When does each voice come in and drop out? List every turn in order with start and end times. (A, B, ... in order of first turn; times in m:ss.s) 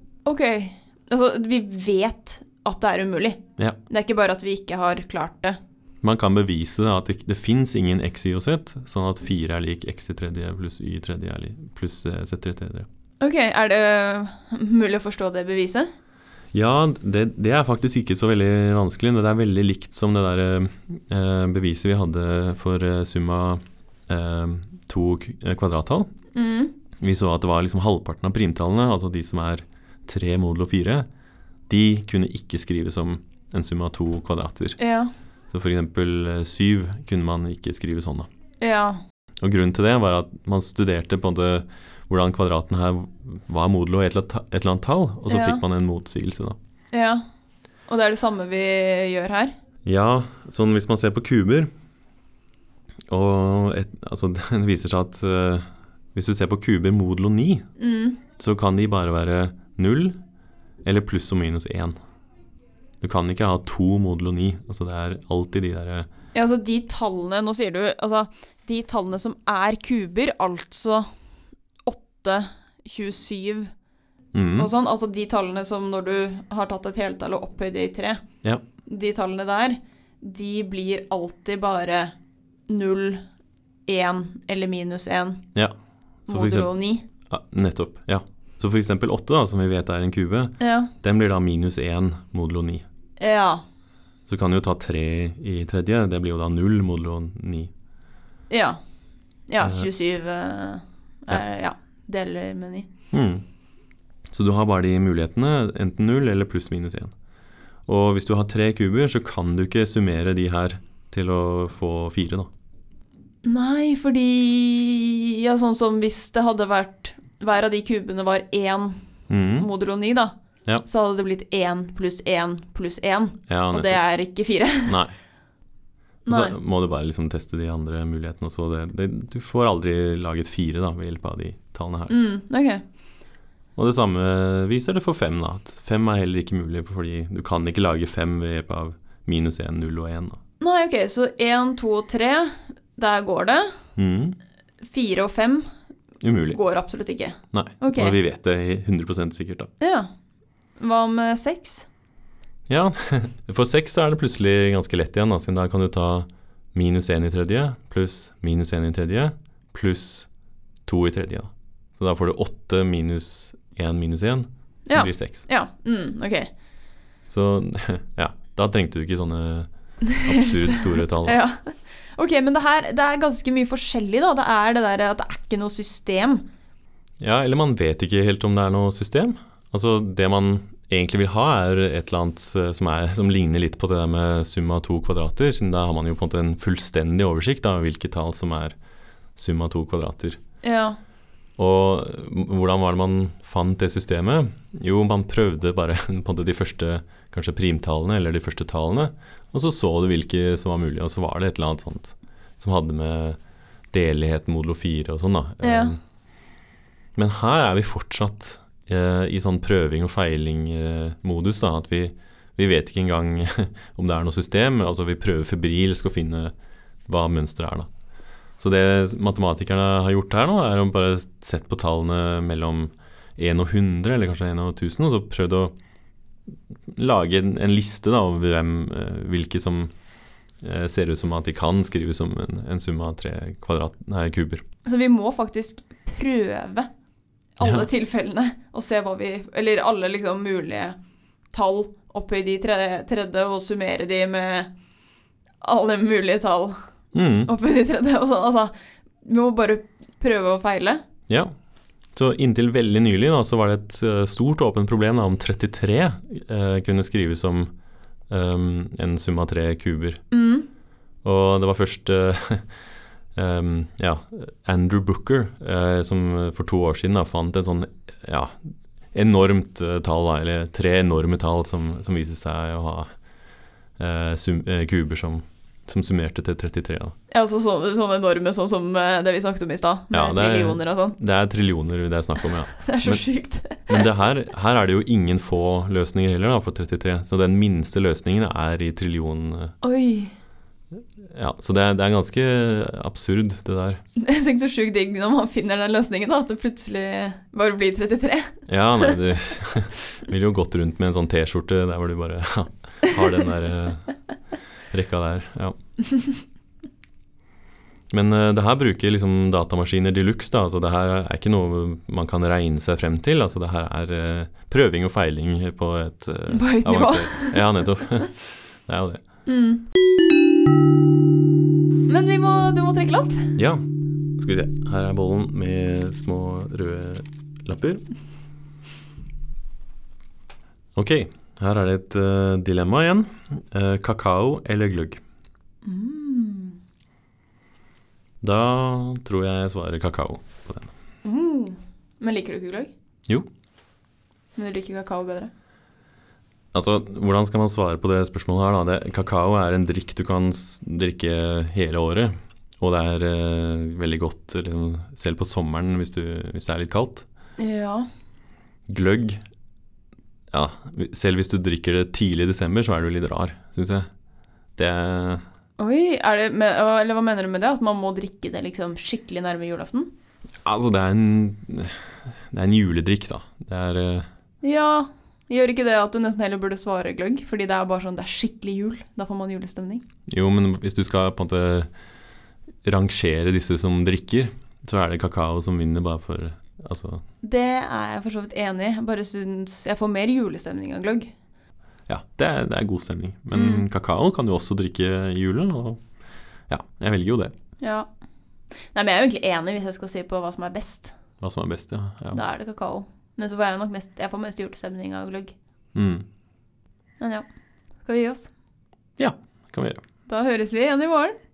0:00.2-0:05.6 A
0:06.0-0:12.9 B
0:13.2-0:15.9 A
0:16.5-0:26.1 B
0:26.4-0:26.7 A
0:27.0-0:31.1 B
0:31.7-0:34.8 B
0:34.8-0:35.1 A
0:35.5-0:38.3 B
0:38.6-0:39.0 A
0:39.4-0:46.6 B
0:45.3-0:45.6 A
0:46.9-0:47.2 A
0:47.9-0:49.5 A
0:49.8-0:51.7 B
0:53.1-0:57.7 B
0:57.8-0:58.2 A
0:58.4-1:00.2 B
1:00.8-1:02.0 B
1:03.0-1:06.1 B
1:06.3-1:11.1 A
1:11.8-1:13.7 A
1:14.3-1:14.7 B
1:14.6-1:18.2 A
1:18.9-1:22.2 A
1:22.7-1:23.2 A
1:23.9-1:25.4 A
1:26.3-1:26.7 B
1:26.3-1:27.0 A
1:27.3-1:32.8 B
1:30.6-1:30.9 A
1:33.2-1:33.6 A
1:34.3-1:37.7 B
1:38.5-1:38.8 A
1:39.5-1:42.9 A
1:39.6-1:39.9 B
1:43.1-1:43.4 B
1:44.3-1:47.1 B
1:47.9-1:52.5 B
1:53.4-1:59.0 A
1:59.3-1:59.7 B
1:59.6-2:05.0 A
2:03.5-2:04.0 B
2:04.9-2:05.1 B
2:06.3-2:06.5 A
2:06.3-2:12.2 B
2:12.1-2:12.8 A
2:13.8-2:20.4 B
2:20.6-2:23.7 A
2:24.0-2:24.4 B
2:24.9-2:25.7 A
2:26.2-2:26.6 B
2:26.5-2:28.2 A
2:27.5-2:29.7 B
2:29.8-2:30.1 A
2:30.8-2:31.9 A
2:32.7-2:40.3 B
2:40.9-2:45.4 B
2:44.9-2:46.5 A
2:47.3-2:51.4 B
2:50.2-2:56.5 A
2:57.2-3:08.8 B
3:09.4-3:10.4 B
3:10.6-3:11.0 A
3:11.6-3:23.4 B
3:23.9-3:26.0 B
3:25.6-3:25.9 A
3:27.2-3:36.5 B
3:37.1-3:37.9 B
3:38.6-3:45.7 B
3:46.9-3:49.9 B
3:50.6-3:54.6 B
3:54.8-3:56.9 A
3:57.6-4:01.0 A
3:57.6-3:57.9 B
4:01.5-4:04.7 A
4:05.6-4:06.8 A
4:07.1-4:07.5 B
4:07.5-4:08.7 A
4:09.2-4:11.0 A
4:12.2-4:17.7 B
4:18.3-4:20.2 B
4:20.3-4:20.7 A
4:21.2-4:22.7 B
4:23.4-4:33.1 B
4:34.0-4:37.2 B
4:37.3-4:41.2 A
4:40.1-4:43.2 B
4:42.8-4:44.0 A
4:43.9-4:49.8 B
4:49.8-4:50.3 A
4:51.0-4:54.0 B
4:54.2-4:59.2 A
4:58.7-5:04.1 B
5:04.9-5:05.8 B
5:08.1-5:19.2 B
5:16.5-5:17.6 A
5:19.5-5:19.8 A
5:22.1-5:23.5 A
5:23.6-5:23.8 B
5:24.4-5:28.0 B
5:31.0-5:35.2 B
5:35.8-5:36.8 A
5:38.4-5:40.9 B
5:41.2-5:42.9 A
5:44.6-5:45.5 A
5:46.7-5:57.2 B
5:57.6-5:58.1 A
5:58.9-5:59.4 B
6:00.5-6:04.1 B
6:04.8-6:05.4 B
6:05.8-6:10.1 A
6:10.6-6:14.3 B
6:14.6-6:20.0 A
6:20.3-6:21.9 B
6:22.8-6:27.2 B
6:27.4-6:31.3 A
6:32.1-6:36.0 B
6:33.5-6:33.8 A
6:36.7-6:37.5 B
6:37.8-6:38.1 A
6:38.9-6:41.1 A
6:41.4-6:42.4 B
6:42.3-6:45.5 A
6:45.9-6:46.3 B
6:47.2-6:47.5 A
6:48.0-6:48.5 A
6:49.2-6:50.0 B
6:50.3-6:51.4 A